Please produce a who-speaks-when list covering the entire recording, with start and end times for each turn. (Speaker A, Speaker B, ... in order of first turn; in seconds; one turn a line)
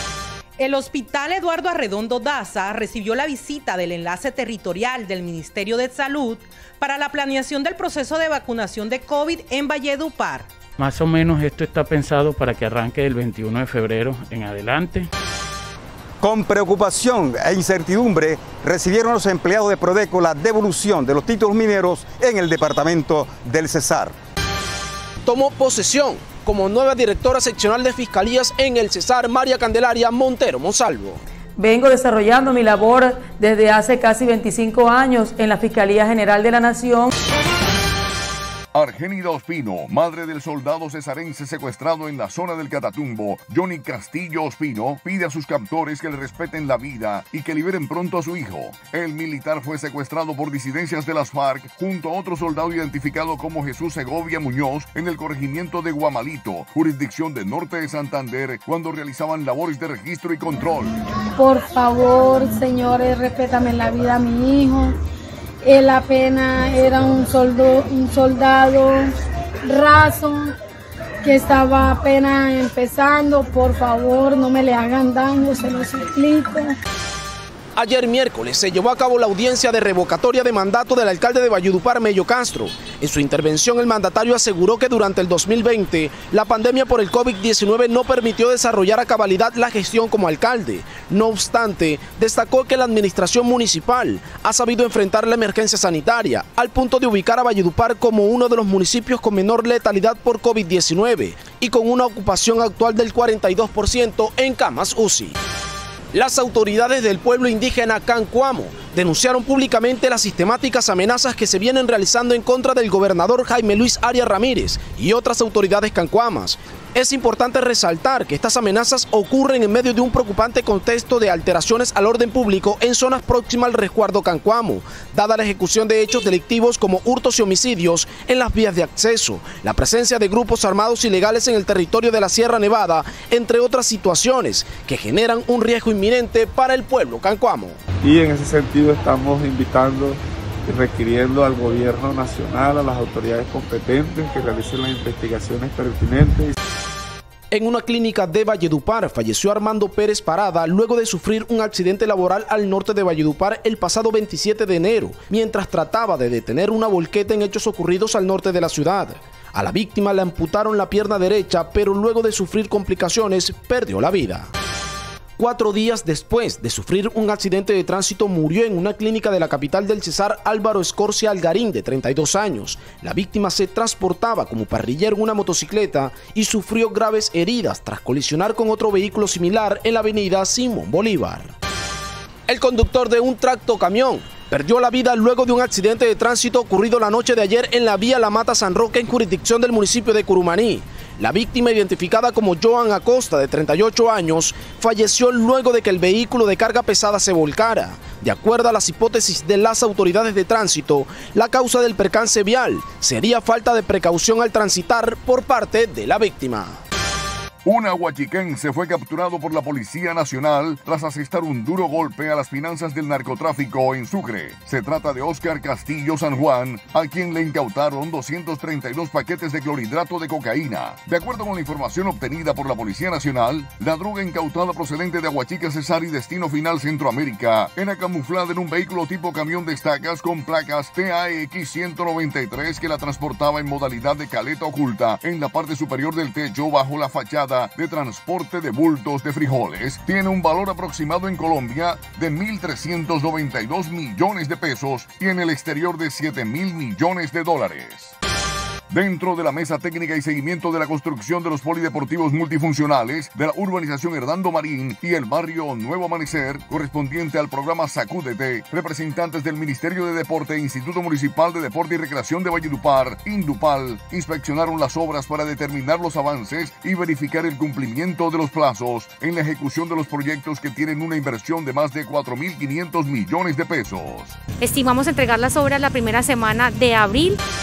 Speaker A: 0.6-10.5
Speaker B: 10.8-15.1
Speaker C: 16.2-24.1
Speaker D: 25.2-31.2
Speaker E: 31.6-37.1
Speaker F: 38.7-60.9
Speaker G: 61.4-64.9
Speaker G: 65.6-69.1
Speaker G: 69.6-70.5
Speaker G: 71.2-76.7
Speaker D: 77.8-105.4
Speaker D: 106.1-137.8
Speaker H: 138.0-146.6
Speaker D: 147.5-164.5
Speaker D: 165.4-181.5
Speaker D: 182.5-206.8
Speaker F: 207.6-248.1
Speaker F: 248.9-274.4
Speaker I: 274.6-277.4